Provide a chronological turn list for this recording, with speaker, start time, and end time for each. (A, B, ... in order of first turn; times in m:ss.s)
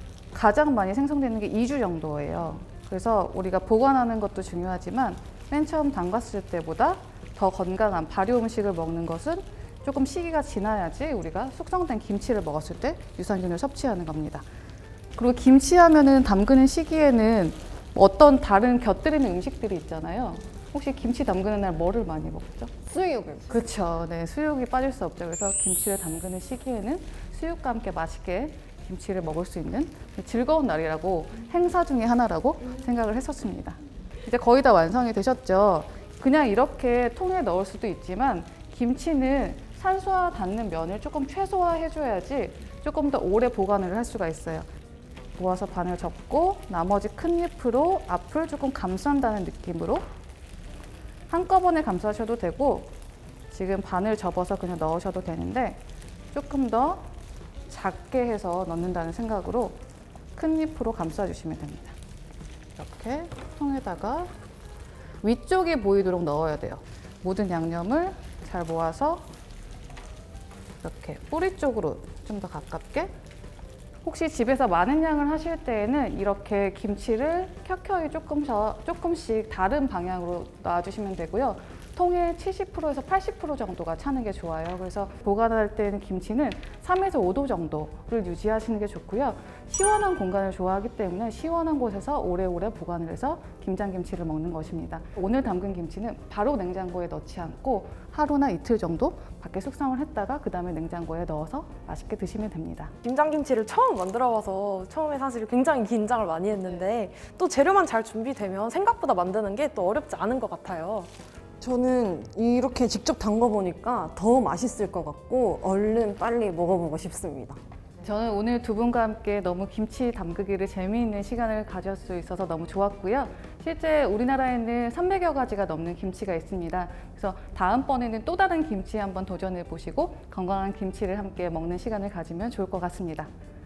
0:00.3-0:14.4 A
0:15.2-0:22.7 A
0:22.9-0:23.6 B
0:23.5-0:44.7 A
0:45.4-0:50.0 A
0:51.3-0:52.9 A
0:53.5-0:55.8 A
0:56.3-0:57.1 A
0:57.7-0:59.8 A
1:00.4-1:02.0 A
1:02.8-1:04.3 A
1:05.2-1:09.2 A
1:10.8-1:13.1 A
1:14.0-1:42.9 A
1:43.0-1:51.1 C
1:51.6-1:57.6 B
1:58.0-2:13.3 A